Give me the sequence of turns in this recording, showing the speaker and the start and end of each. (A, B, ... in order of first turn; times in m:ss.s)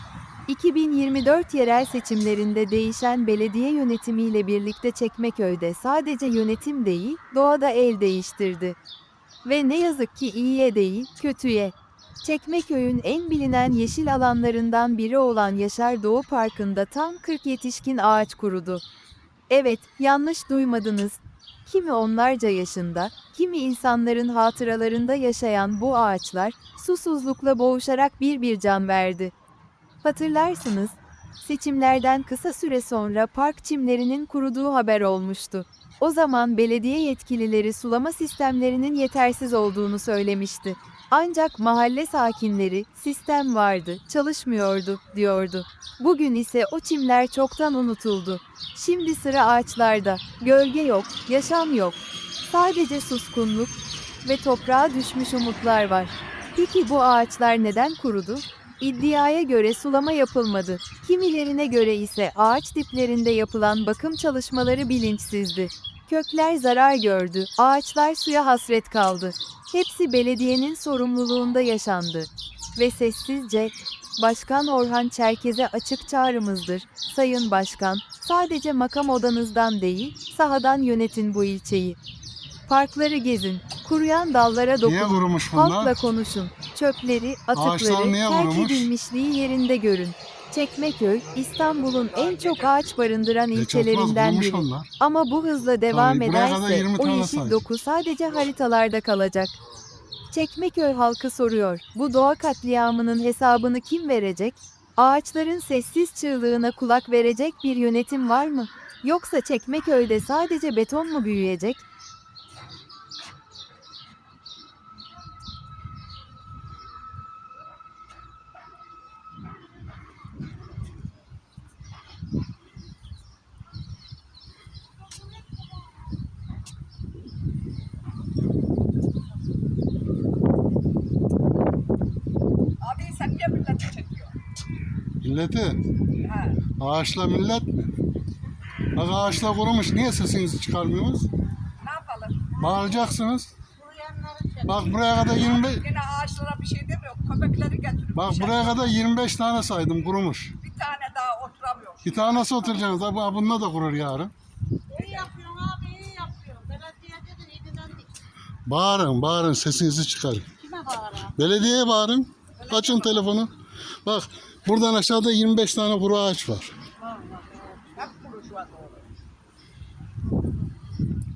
0:00.5-0:08.8 A
0:09.4-0:18.8 A
0:19.5-0:29.3 A
0:30.0-1:22.0 A
1:22.7-1:39.6 A
1:24.8-1:26.0 B
1:27.6-1:28.9 B
1:33.5-1:34.9 B
1:35.9-1:37.6 B
1:40.3-1:51.9 A
2:12.8-2:14.4 C
2:15.2-2:15.8 B
2:16.2-2:16.6 C
2:16.8-2:18.0 B
2:18.9-2:21.3 B
2:21.8-2:22.6 C
2:22.5-2:23.5 B
2:23.8-2:24.6 D
2:24.6-2:25.9 B
2:25.3-2:28.9 C
2:28.2-2:30.6 B
2:30.6-2:32.5 C
2:32.0-2:34.3 B
2:34.9-2:35.3 C
2:35.0-2:38.1 D
2:38.7-2:40.5 B
2:40.7-2:41.3 D
2:41.2-2:46.8 B
2:42.6-2:43.1 C
2:47.0-2:47.8 D
2:48.0-2:49.0 C